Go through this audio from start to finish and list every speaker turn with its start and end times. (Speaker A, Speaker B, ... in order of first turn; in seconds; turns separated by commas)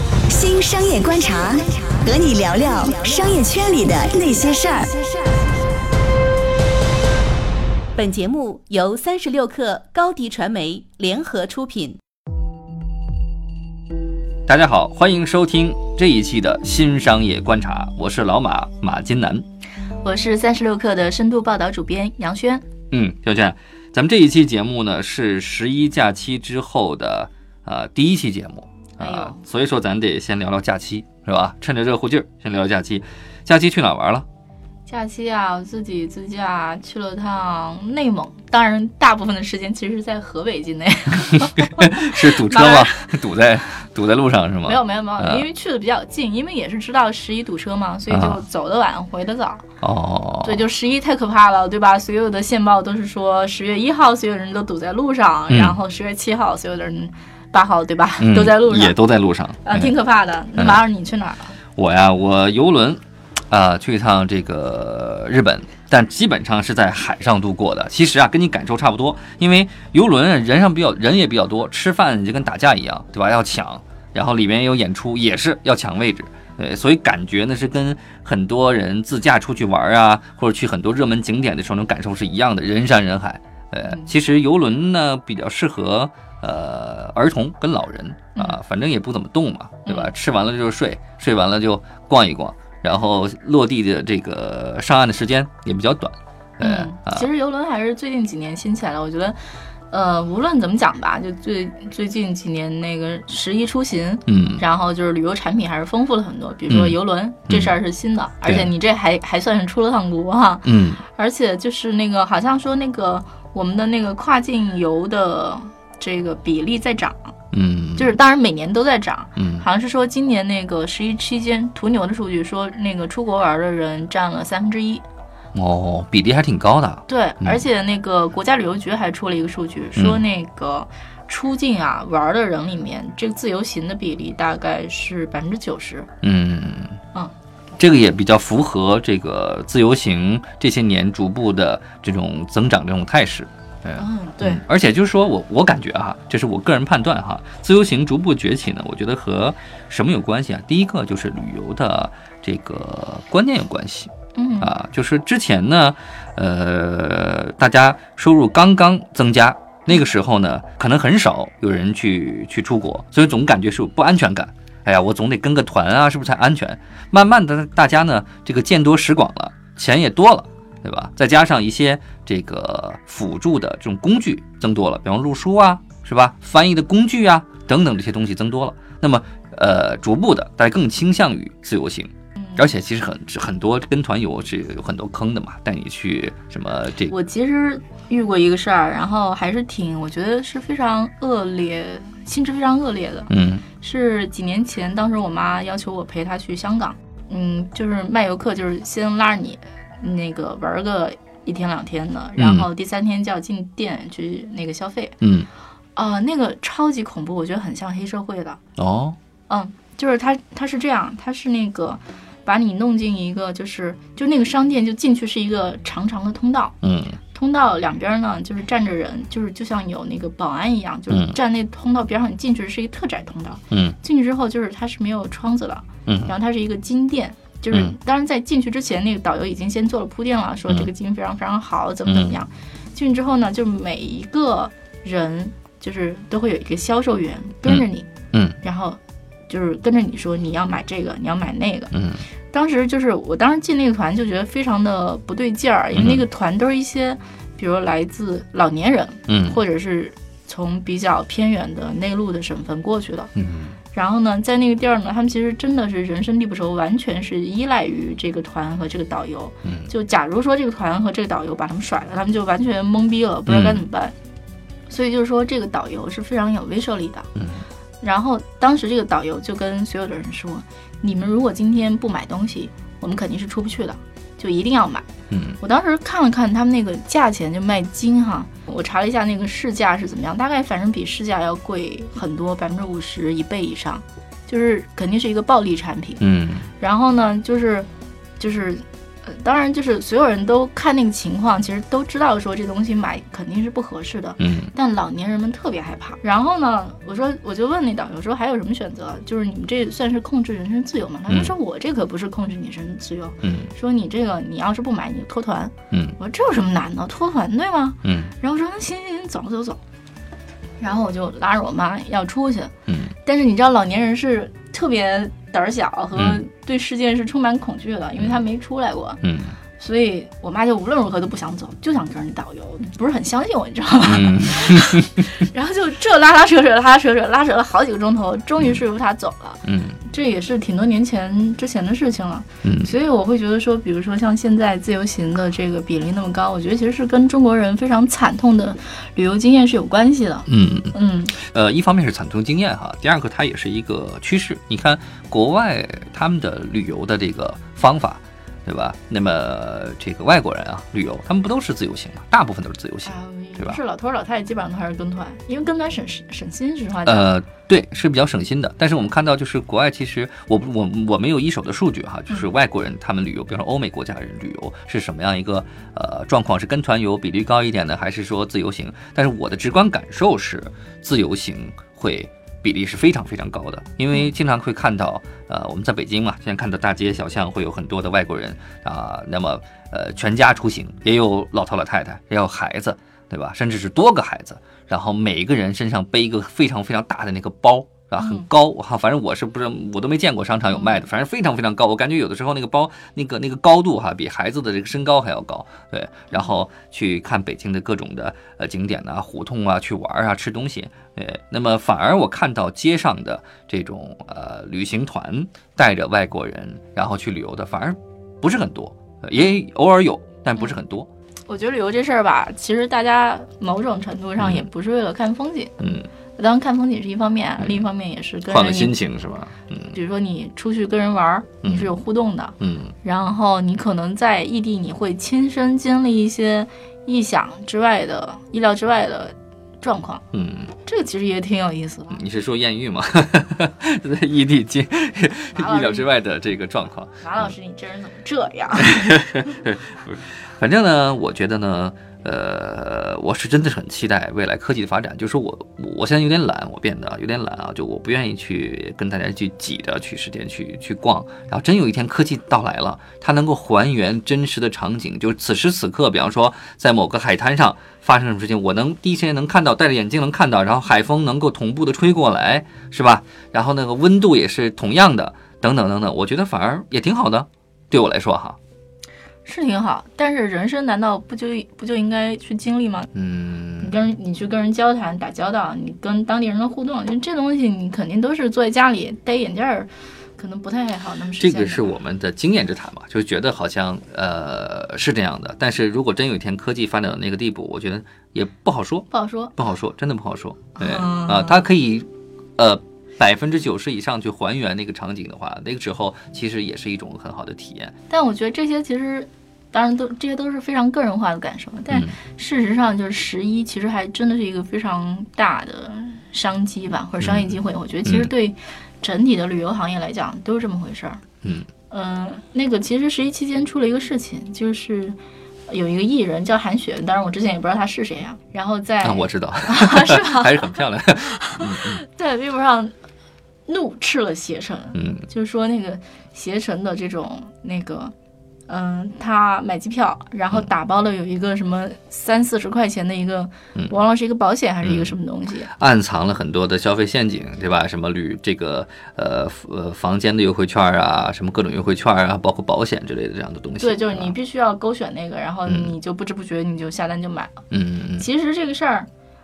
Speaker A: 0.3-5.0, Speaker B: 8.0-12.0, Speaker C: 14.5-19.4, Speaker D: 20.0-22.7, Speaker C: 22.9-34.3, Speaker D: 29.0-29.4, Speaker D: 34.9-43.2, Speaker C: 41.6-45.5, Speaker D: 44.6-49.6, Speaker C: 48.1-48.4, Speaker C: 49.8-50.6, Speaker D: 50.4-59.0, Speaker C: 55.5-55.8, Speaker C: 58.2-60.0, Speaker D: 59.6-61.6, Speaker C: 60.6-60.8, Speaker C: 61.8-97.3, Speaker D: 89.9-90.1, Speaker D: 96.6-117.3, Speaker C: 104.3-104.6, Speaker C: 106.7-107.0, Speaker C: 107.5-107.8, Speaker C: 108.5-108.7, Speaker C: 110.7-111.0, Speaker C: 117.5-118.2, Speaker D: 118.0-125.0, Speaker C: 119.4-119.7, Speaker C: 125.5-127.6, Speaker D: 127.1-136.1, Speaker C: 130.0-130.2, Speaker C: 136.2-137.0, Speaker C: 137.8-187.1, Speaker D: 144.0-144.6, Speaker D: 154.3-154.7, Speaker D: 187.1-205.2, Speaker C: 193.3-193.7, Speaker C: 202.4-202.7, Speaker C: 205.2-205.5, Speaker D: 205.9-208.6, Speaker C: 208.8-209.2, Speaker D: 209.5-216.8, Speaker C: 216.8-217.2, Speaker D: 217.3-241.9, Speaker C: 221.1-221.4, Speaker C: 223.7-224.0, Speaker C: 226.1-226.3, Speaker C: 232.1-232.3, Speaker C: 237.7-238.6, Speaker C: 241.9-242.2, Speaker D: 242.5-253.3, Speaker C: 245.9-246.3, Speaker C: 249.3-249.6, Speaker C: 253.4-253.8, Speaker D: 253.9-264.2, Speaker C: 259.6-259.9, Speaker C: 263.5-263.8, Speaker D: 264.9-267.3, Speaker C: 267.4-267.7, Speaker D: 268.0-275.1, Speaker C: 275.3-275.6, Speaker D: 275.6-286.2, Speaker C: 286.2-286.7, Speaker D: 286.8-309.8, Speaker C: 294.4-294.7, Speaker C: 303.4-303.7, Speaker C: 305.9-306.2, Speaker C: 308.0-308.3, Speaker D: 310.8-319.2, Speaker C: 312.9-313.1, Speaker C: 316.2-316.4, Speaker C: 319.2-319.6, Speaker D: 319.8-341.4, Speaker C: 324.1-325.3, Speaker C: 329.6-330.0, Speaker C: 332.6-332.9, Speaker C: 340.5-353.8, Speaker D: 353.1-357.3, Speaker C: 357.0-411.1, Speaker D: 388.2-388.5, Speaker D: 390.7-391.1, Speaker D: 411.5-415.7, Speaker C: 414.4-414.7, Speaker C: 415.8-416.1, Speaker D: 416.4-418.9, Speaker C: 418.4-420.0, Speaker D: 419.9-430.2, Speaker C: 421.6-421.9, Speaker C: 422.6-422.9, Speaker C: 430.3-430.7, Speaker D: 430.8-432.2, Speaker C: 432.1-437.5, Speaker D: 435.5-436.1, Speaker D: 437.2-439.1, Speaker C: 438.8-468.6, Speaker D: 469.4-473.1, Speaker C: 473.1-474.0, Speaker D: 473.8-481.9, Speaker C: 481.4-497.9, Speaker D: 489.1-489.5, Speaker D: 490.8-491.6, Speaker D: 498.1-511.2, Speaker C: 501.9-502.2, Speaker C: 507.2-508.3, Speaker C: 511.4-511.7, Speaker D: 511.9-520.8, Speaker C: 519.0-522.0, Speaker D: 521.3-522.9, Speaker D: 523.7-528.1, Speaker C: 525.0-525.3, Speaker D: 528.7-535.7, Speaker C: 534.8-535.1, Speaker C: 535.8-544.4, Speaker D: 543.8-547.6, Speaker C: 545.7-546.0, Speaker C: 547.7-548.3, Speaker D: 548.2-549.1